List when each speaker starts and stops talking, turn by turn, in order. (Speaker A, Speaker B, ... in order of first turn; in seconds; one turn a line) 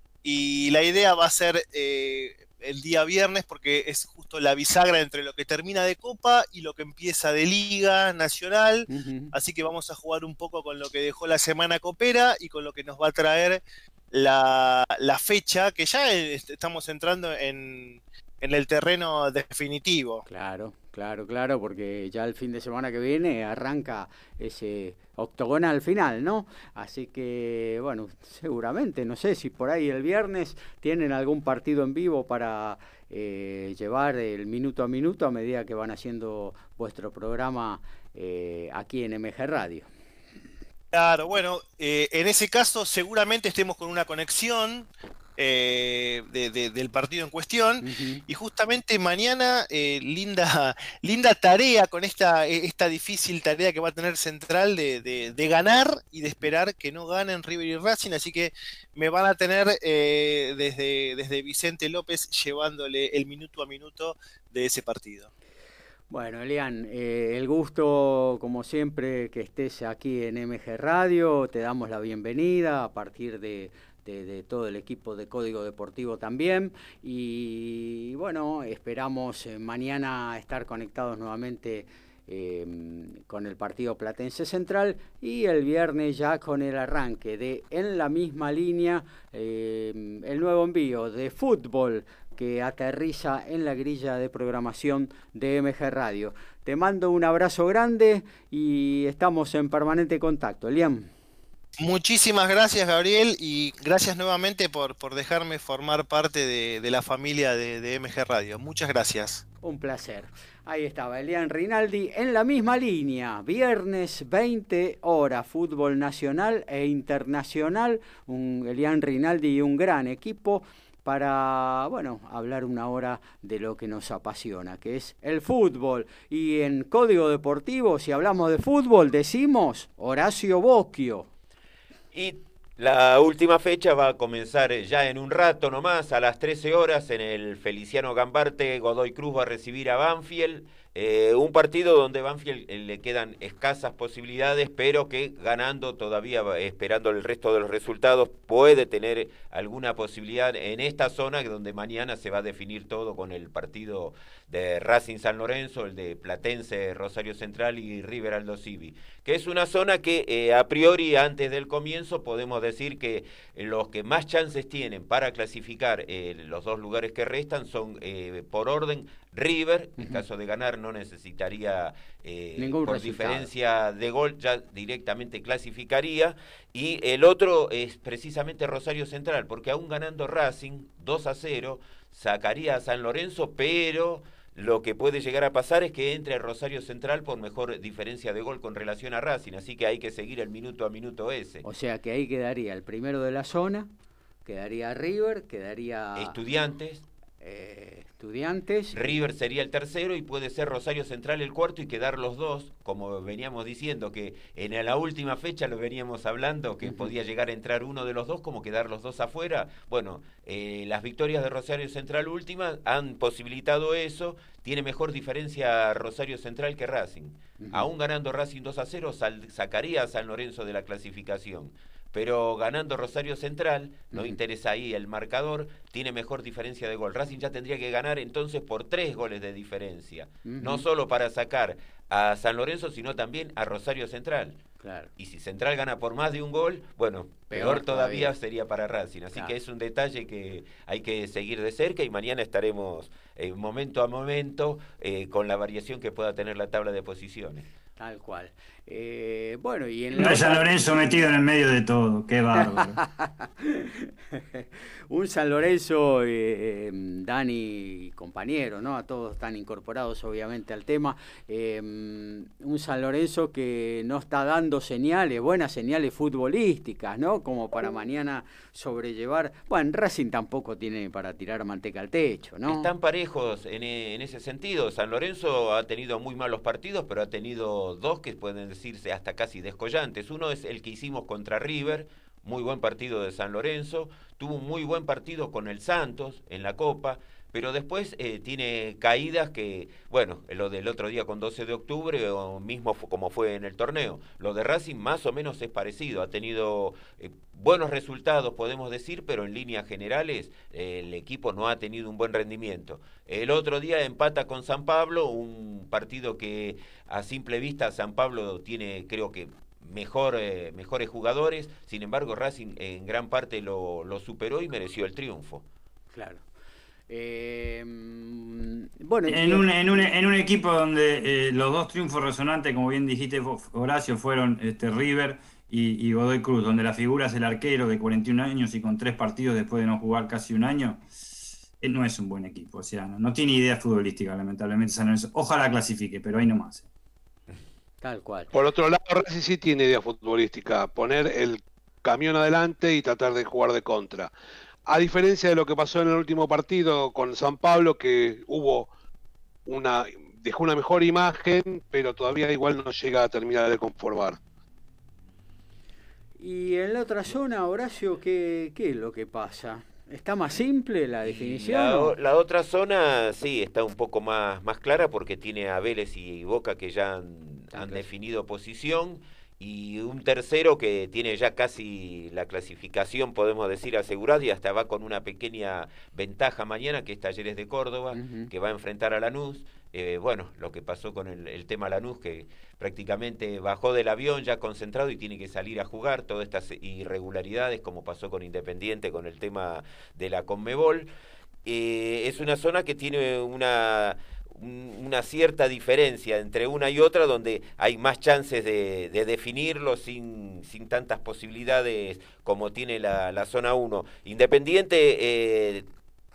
Speaker A: 0.2-20.2
Speaker B: 8.9-9.3
Speaker B: 20.3-39.9
Speaker A: 40.9-65.3
Speaker B: 47.8-48.2
Speaker B: 66.1-101.1
Speaker A: 101.8-109.4
Speaker B: 109.6-131.3
Speaker C: 132.1-191.6
Speaker B: 172.6-173.5
Speaker B: 191.6-193.9
Speaker B: 194.5-196.3
Speaker C: 196.2-197.1
Speaker B: 197.4-199.0
Speaker C: 198.9-234.6
Speaker B: 206.8-207.1
Speaker B: 217.6-217.9
Speaker B: 224.1-224.4
Speaker B: 230.5-230.8
Speaker B: 234.8-235.1
Speaker C: 235.2-247.7
Speaker B: 237.5-238.3
Speaker B: 248.0-251.0
Speaker D: 250.1-253.0
Speaker B: 252.6-272.9
Speaker C: 272.7-315.6
Speaker B: 316.1-316.4
Speaker B: 317.1-319.7
Speaker D: 319.3-331.0
Speaker D: 331.8-336.9
Speaker B: 338.0-338.5
Speaker E: 338.5-344.3
Speaker E: 344.9-348.9
Speaker E: 349.7-354.4
Speaker B: 356.4-362.1
Speaker C: 361.2-391.1
Speaker B: 367.7-368.1
Speaker B: 378.1-378.5
Speaker C: 391.6-405.9